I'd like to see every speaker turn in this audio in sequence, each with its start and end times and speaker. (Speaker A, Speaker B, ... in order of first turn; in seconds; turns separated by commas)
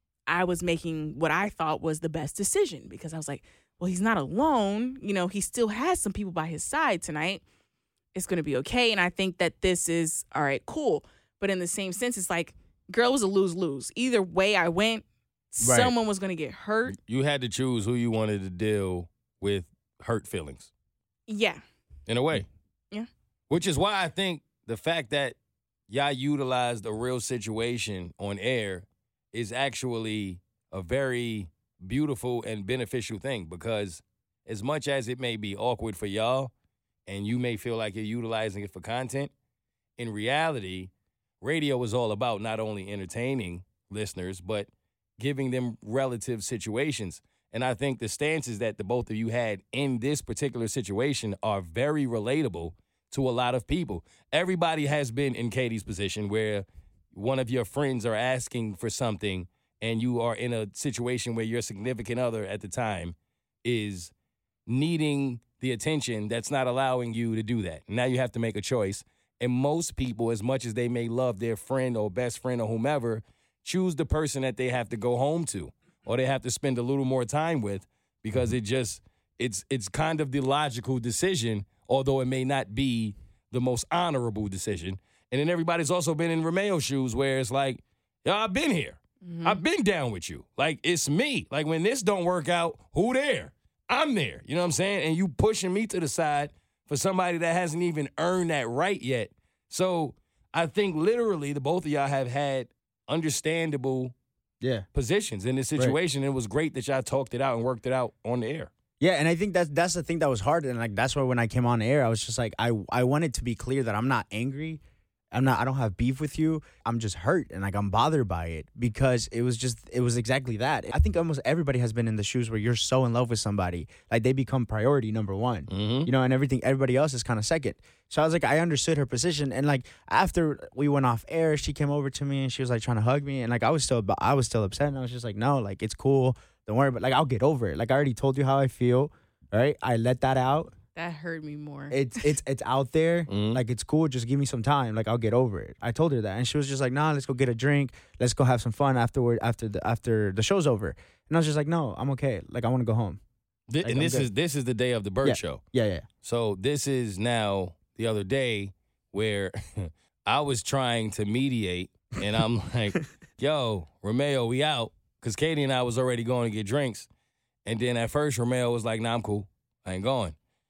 Speaker A: 0.3-7.4, Speaker A: 8.1-17.0, Speaker B: 15.6-15.9, Speaker C: 16.9-20.7, Speaker A: 21.3-21.6, Speaker C: 22.1-22.5, Speaker C: 23.5-25.4, Speaker C: 25.9-36.5, Speaker C: 37.1-39.3, Speaker C: 40.0-64.1, Speaker C: 64.7-104.1, Speaker A: 89.2-89.6, Speaker C: 104.9-108.7, Speaker B: 109.0-114.8, Speaker B: 115.3-140.7, Speaker C: 125.7-126.1, Speaker A: 140.9-142.3, Speaker B: 141.9-153.2, Speaker C: 143.3-143.6, Speaker C: 153.7-155.6, Speaker B: 153.8-154.3, Speaker B: 155.2-156.1, Speaker C: 156.2-167.1, Speaker C: 167.6-170.3